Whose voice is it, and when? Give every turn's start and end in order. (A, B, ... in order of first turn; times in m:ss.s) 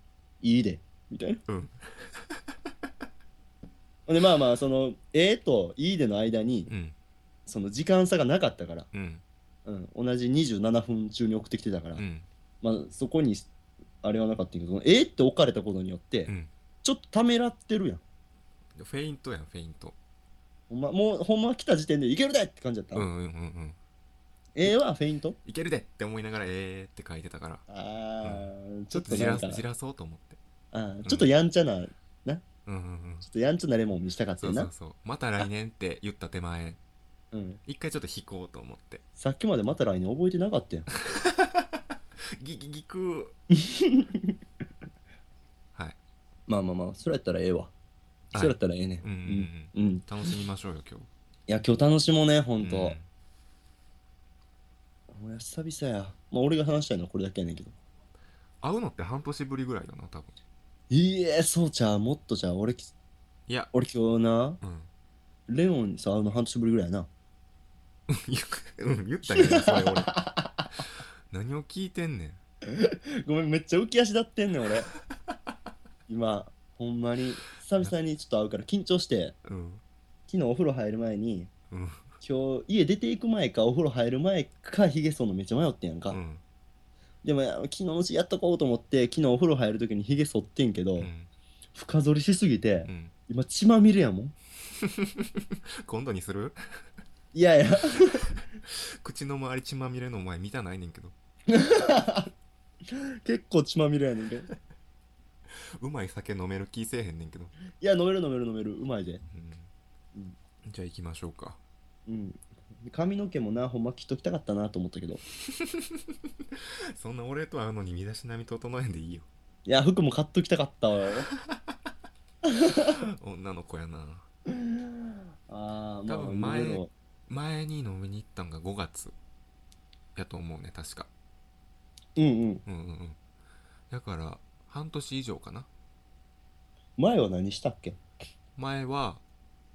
0:00.4-0:01.4 A
0:01.5-0:01.8 B
0:04.1-0:06.7 A
0:06.7-0:07.0 B
0:07.5-0:08.9 A
0:08.9-0:09.2 B
0:09.7-0:12.0 A
0:12.0-0:12.3 B
0:12.6-0:13.5 A
0:14.0-0:16.3 A
0:16.8-0:18.0 A
0:18.8-0:20.0 B
0:20.7-0:23.1 A
0:22.9-0:23.8 B
0:24.6-0:25.4 A
0:25.4-0:27.6 B
0:27.7-0:29.6 A
0:28.2-0:30.4 B
0:30.7-0:32.4 A
0:32.7-0:33.3 B
0:33.2-0:34.7 A
0:34.4-0:36.8 B
0:37.3-0:37.6 A
0:37.7-0:39.0 B
0:39.2-0:40.9 A
0:41.0-0:41.8 B
0:42.4-0:43.4 B
0:43.5-0:44.4 A
0:46.5-0:47.7 A
0:48.3-0:50.0 A
0:48.3-0:51.1 B
0:51.5-0:53.0 A
0:52.6-0:53.1 B
0:55.1-0:57.7 A
0:58.6-1:00.4 B
1:00.9-1:02.9 A
1:03.5-1:03.7 B
1:03.7-1:04.6 A
1:04.6-1:04.9 B
1:05.5-1:07.1 A
1:08.1-1:10.1 B
1:09.3-1:10.6 A
1:11.3-1:12.4 B
1:12.7-1:14.9 A
1:16.1-1:19.4 A
1:19.4-1:19.8 B
1:20.3-1:21.5 A
1:21.7-1:22.1 B
1:22.2-1:26.2 A
1:26.1-1:26.4 B
1:27.2-1:31.1 A
1:31.0-1:31.3 B
1:31.8-1:34.4 A
1:32.9-1:33.1 B
1:34.8-1:36.6 B
1:37.3-1:38.3 A
1:38.7-1:41.1 B
1:41.5-1:42.3 A
1:42.9-1:44.5 A
1:45.8-1:47.5 B
1:47.8-1:49.2 A
1:49.3-1:49.7 B
1:50.6-1:51.6 B
1:52.1-1:55.2 A
1:55.5-1:59.3 B
1:59.7-2:01.3 A
2:02.5-2:03.0 A
2:02.9-2:04.3 B
2:04.5-2:06.9 A
2:06.1-2:09.2 B
2:10.2-2:11.1 B
2:12.2-2:12.6 A
2:12.7-2:13.2 B
2:13.9-2:15.7 B
2:17.0-2:18.0 A
2:18.6-2:19.2 B